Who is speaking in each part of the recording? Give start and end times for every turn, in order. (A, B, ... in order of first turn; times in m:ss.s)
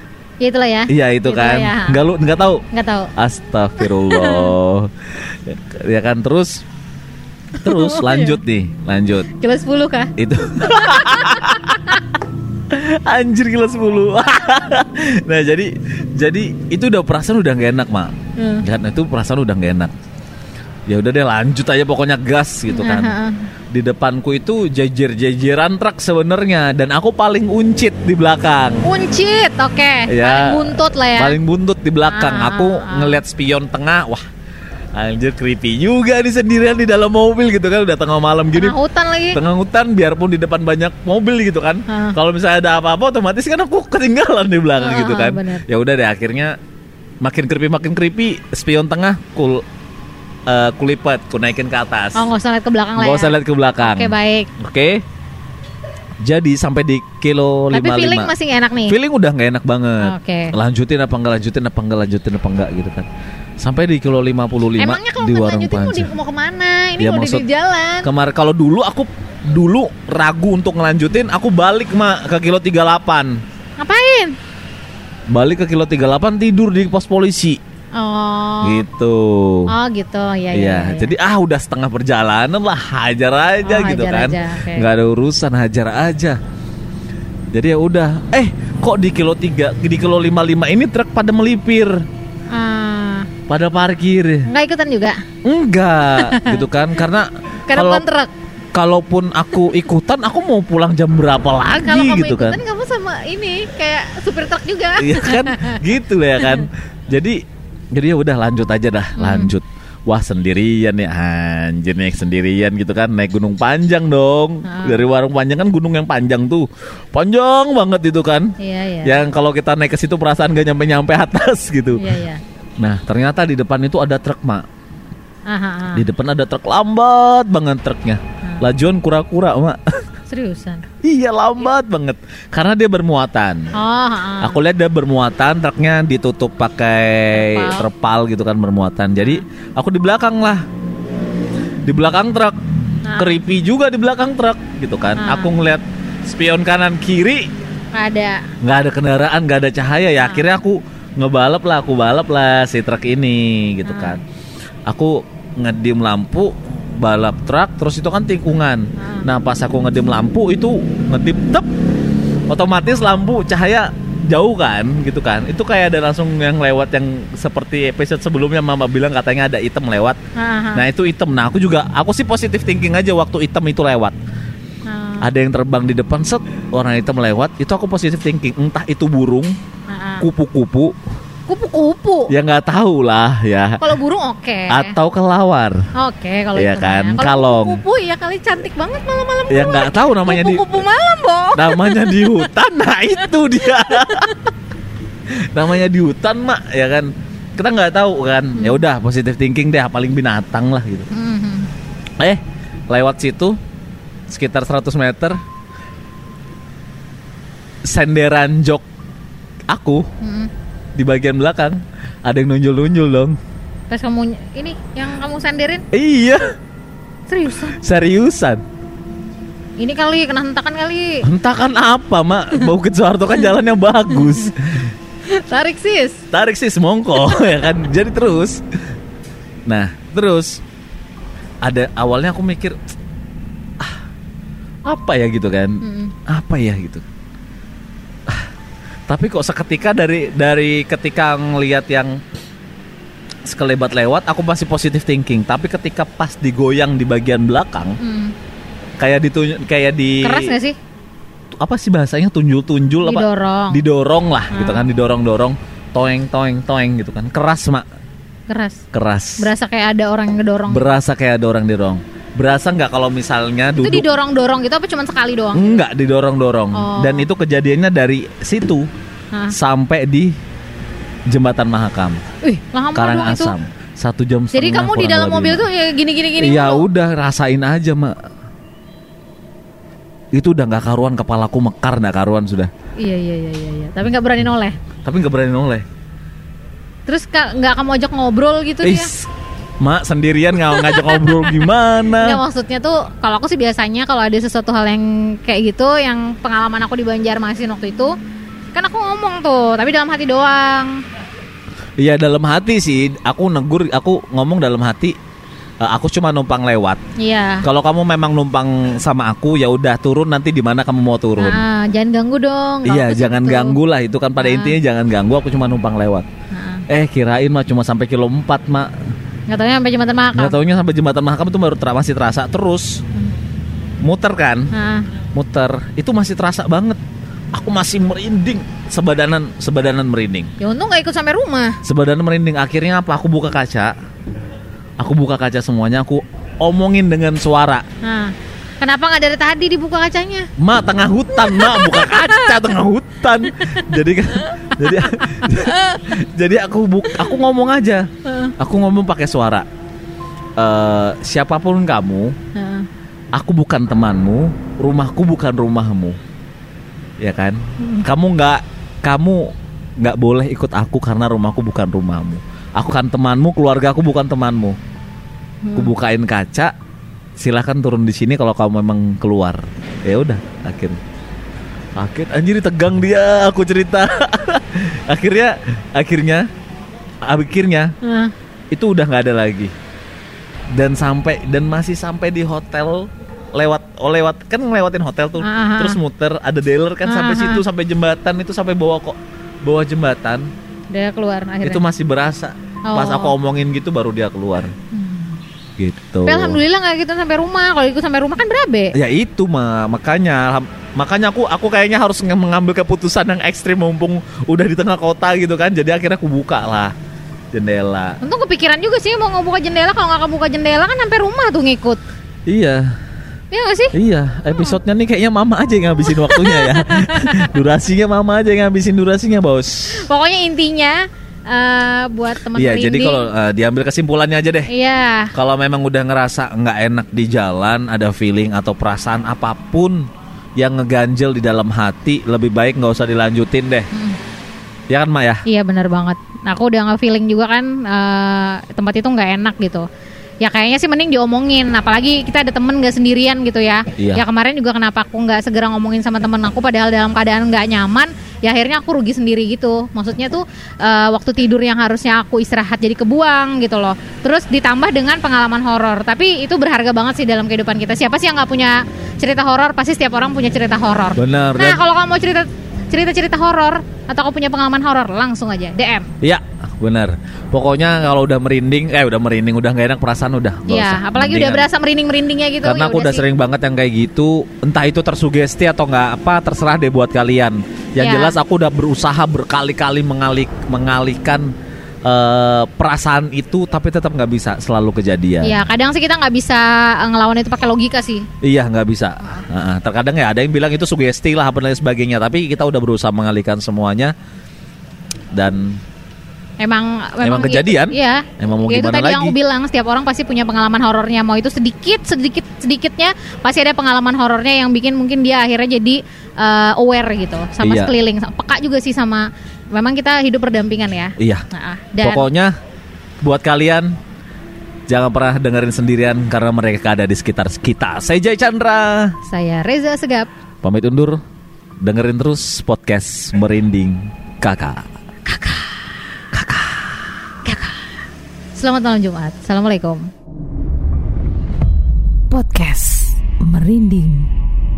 0:00.4-0:02.0 A
0:00.9-0:02.6 B
0:02.7-0:03.1 A
0:03.2-0:06.6 B
0:04.0-0:04.5 A
0:07.6-0:08.4 A
0:07.6-0:09.3 B
0:09.3-0:12.0 A
0:10.2-0:12.0 B
0:12.7-0:19.9 B
0:18.4-0:18.6 A
0:20.9-0:23.2 B
0:22.7-0:23.4 A
0:23.7-0:28.8 B
0:28.8-0:31.4 A
0:30.1-0:34.2 B
0:32.1-0:33.2 A
0:34.9-0:38.8 B
0:38.5-0:39.4 A
0:39.3-0:46.6 B
0:41.9-0:42.2 A
0:44.8-0:45.6 A
0:47.2-0:49.6 B
0:50.5-0:52.3 B
0:52.1-0:54.5 A
0:53.0-0:55.0 B
0:56.2-0:58.3 B
0:57.7-0:59.0 A
0:58.8-1:03.1 B
1:00.0-1:00.5 A
1:03.6-1:06.1 B
1:04.8-1:08.1 A
1:07.0-1:07.4 B
1:08.0-1:13.4 B
1:13.8-1:14.3 A
1:15.3-1:17.6 B
1:18.0-1:18.8 A
1:18.6-1:19.7 B
1:19.7-1:21.1 A
1:20.5-1:26.4 B
1:23.6-1:24.9 A
1:27.5-1:32.0 B
1:32.5-1:33.3 A
1:33.5-1:34.5 B
1:34.4-1:35.2 A
1:35.4-1:38.0 B
1:36.2-1:36.6 A
1:37.7-1:38.3 A
1:38.7-1:42.6 B
1:41.8-1:45.8 A
1:45.0-1:47.4 B
1:47.9-2:02.1 B
1:49.2-1:49.5 A
1:54.6-1:55.0 A
1:58.6-1:59.2 A
2:02.0-2:02.4 A
2:02.8-2:04.6 B
2:05.5-2:06.0 A
2:05.9-2:10.0 B
2:10.3-2:10.8 A
2:11.0-2:13.7 B
2:13.7-2:14.6 A
2:14.4-2:20.6 B
2:17.4-2:17.8 A
2:21.8-2:22.6 B
2:23.0-2:23.4 A
2:23.1-2:27.5 B
2:25.2-2:25.5 A
2:27.9-2:28.5 A
2:28.6-2:34.2 B
2:30.2-2:30.5 A
2:33.8-2:34.2 A
2:34.9-2:41.7 B
2:39.0-2:39.3 A
2:42.5-2:50.2 B
2:50.4-2:50.8 A
2:50.7-2:54.2 B
2:54.8-2:55.3 A
2:55.2-2:59.5 B
2:59.9-3:00.2 A
3:00.2-3:01.0 B
3:01.5-3:02.3 A
3:02.3-3:03.9 B
3:03.8-3:05.0 A
3:04.7-3:05.8 B
3:05.9-3:12.4 A
3:06.5-3:07.8 B
3:09.5-3:10.6 B
3:11.5-3:14.5 B
3:13.7-3:14.5 A
3:15.3-3:21.1 B
3:18.5-3:18.8 A
3:21.1-3:21.7 A
3:22.2-3:23.6 B
3:24.3-3:25.4 B
3:27.8-3:28.8 B
3:29.7-3:30.1 B
3:30.2-3:30.5 A
3:31.0-3:33.4 B
3:33.9-3:35.8 A
3:35.9-3:36.4 B
3:37.3-3:37.8 A
3:37.7-3:38.6 B
3:39.8-3:41.2 A
3:41.2-3:44.9 B
3:45.3-3:46.2 A
3:46.3-3:48.6 B
3:49.7-3:50.6 B
3:51.6-3:52.8 B
3:54.8-3:57.0 B
3:55.8-3:56.1 A
3:59.1-4:02.2 B
4:03.5-4:08.0 B
4:08.0-4:08.3 A
4:09.0-4:10.5 B
4:10.2-4:10.8 A
4:11.6-4:17.8 B
4:13.0-4:13.8 A
4:14.5-4:14.9 A
4:18.5-4:18.8 A
4:18.9-4:19.5 B
4:19.4-4:20.8 A
4:20.7-4:24.1 B
4:23.8-4:25.8 A
4:25.5-4:28.9 B
4:26.7-4:27.3 A
4:29.5-4:30.3 B
4:31.3-4:32.2 B
4:32.4-4:33.5 A
4:32.9-4:35.6 B
4:34.5-4:36.8 A
4:36.4-4:38.1 B
4:40.3-4:42.7 B
4:43.0-4:44.8 A
4:45.0-4:45.8 B
4:47.1-4:49.1 A
4:48.8-4:49.3 B
4:49.8-4:52.4 B
4:50.6-4:51.6 A
4:52.2-4:58.1 A
4:58.7-5:01.0 A
5:02.0-5:05.1 B
5:05.8-5:07.0 B
5:07.2-5:07.6 A
5:07.6-5:11.6 B
5:11.4-5:13.8 A
5:12.8-5:16.2 B
5:14.4-5:14.8 A
5:16.5-5:16.8 A
5:16.9-5:18.9 B
5:19.5-5:20.6 A
5:20.3-5:23.0 B
5:24.0-5:24.7 B
5:24.7-5:25.1 A
5:25.3-5:27.0 B
5:27.5-5:30.5 B
5:30.6-5:31.8 A
5:31.8-5:33.9 B
5:35.0-5:37.8 B
5:38.0-5:40.5 A
5:40.6-5:49.6 B
5:41.3-5:42.4 A
5:44.4-5:46.0 A
5:48.2-5:48.5 A
5:50.6-5:52.4 B
5:52.5-5:52.9 A
5:53.3-5:56.2 B
5:57.2-6:04.8 B
5:57.8-5:58.0 A
6:05.6-6:05.9 A
6:05.7-6:06.7 B
6:07.4-6:11.0 B
6:12.0-6:16.5 B
6:17.2-6:17.9 B
6:18.0-6:18.3 A
6:18.7-6:19.7 B
6:20.7-6:30.5 B
6:25.4-6:26.0 A
6:27.0-6:27.6 A
6:30.9-6:31.8 A
6:31.6-6:34.7 B
6:32.9-6:33.3 A
6:34.9-6:35.4 A
6:35.8-6:36.6 B
6:36.2-6:38.9 A
6:38.9-6:46.9 B
6:47.5-6:48.2 B
6:48.2-6:52.0 A
6:52.5-6:53.0 B
6:53.5-6:53.9 A
6:53.9-7:00.0 B
6:56.1-6:57.5 A
7:00.0-7:03.3 A
7:02.5-7:04.7 B
7:04.7-7:05.3 A
7:05.3-7:13.9 B
7:13.9-7:14.2 A
7:14.9-7:15.4 B
7:15.4-7:19.8 A
7:20.4-7:46.1 A
7:24.0-7:24.2 B
7:41.2-7:41.8 B
7:46.2-7:51.6 B
7:50.7-7:53.2 A
7:52.6-8:01.5 B
7:58.0-7:58.4 A
8:02.0-8:05.6 B
8:05.4-8:08.3 A
8:08.4-8:14.1 B
8:15.3-8:15.8 B
8:16.6-8:32.2 A
8:17.2-8:19.4 B
8:27.6-8:27.9 B
8:31.2-8:31.4 B
8:32.0-8:32.5 B
8:33.2-8:33.9 B
8:34.9-8:39.2 B
8:39.2-8:40.3 A
8:40.6-8:41.2 B
8:41.8-8:44.8 B
8:45.2-8:45.9 A
8:46.3-8:47.1 B
8:47.4-8:47.9 A
8:48.5-8:50.1 A
8:52.3-8:54.3 A